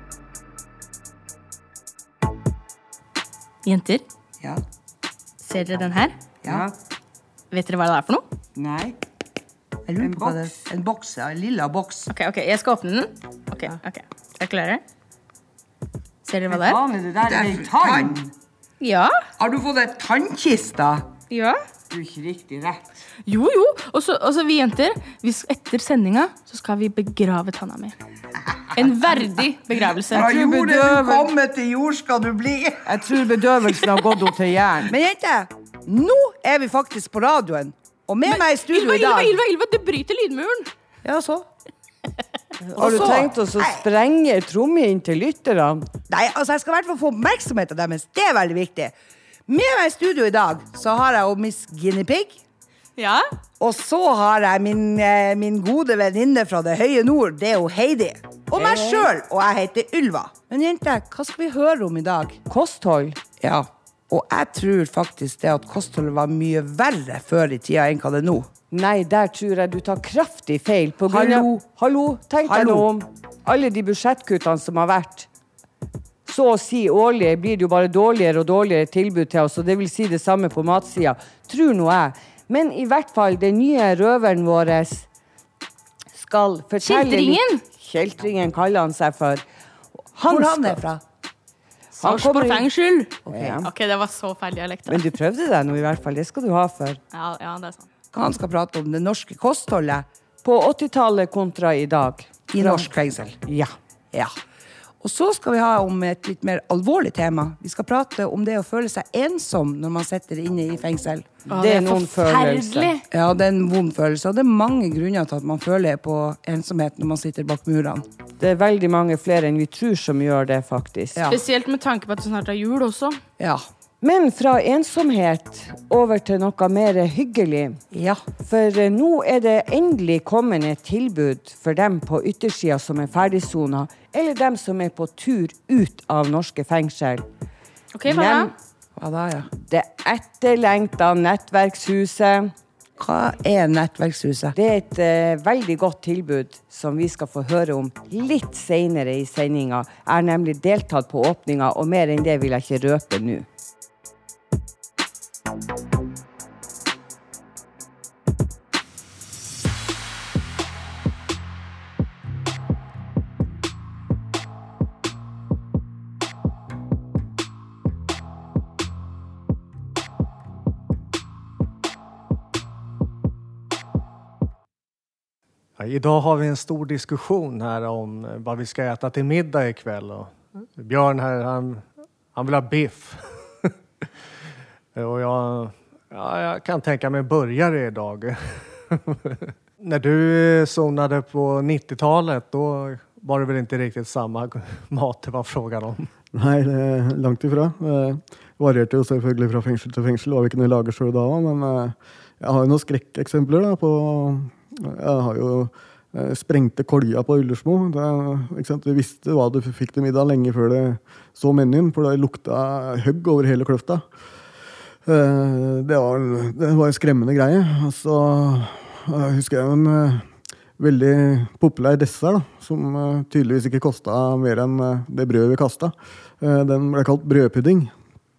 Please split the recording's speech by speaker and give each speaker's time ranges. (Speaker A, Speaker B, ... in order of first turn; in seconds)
Speaker A: 3.6-4.0, 5.4-6.2, 7.5-8.2, 12.1-14.8, 16.2-16.8, 18.8-19.2, 21.3-21.6, 23.3-27.9, 28.8-30.4, 38.2-40.7, 42.9-43.1, 53.0-53.2, 58.6-58.9, 86.8-87.6, 92.0-95.1, 97.1-97.9, 111.5-113.0, 121.3-123.2, 137.9-138.5
Speaker B: 6.4-6.7, 8.6-8.9, 9.9-12.1, 16.5-18.3, 19.4-21.1, 21.9-22.8, 28.8-29.4, 29.9-39.4, 41.0-41.5, 42.6-43.8, 46.1-48.9, 49.5-52.4, 53.6-62.4, 63.4-68.5, 71.1-71.6, 72.4-72.9, 90.2-91.0, 93.2-93.7, 98.1-100.0, 102.5-103.5, 105.0-112.1, 113.1-118.0, 127.9-128.2, 139.0-139.5, 143.0-144.5
Speaker C: 42.8-45.9, 62.5-63.2, 68.7-75.3, 76.3-85.1, 86.2-89.4, 90.1-90.8, 92.0-92.7, 93.3-93.7, 94.9-97.0, 100.4-102.9, 103.4-103.7, 111.5-112.9, 118.4-121.3, 124.0-127.8, 128.4-137.3, 138.1-138.5, 139.5-142.5, 144.5-153.5
Speaker D: 175.8-183.5, 184.9-196.1
Speaker E: 196.3-214.0, 215.1-227.9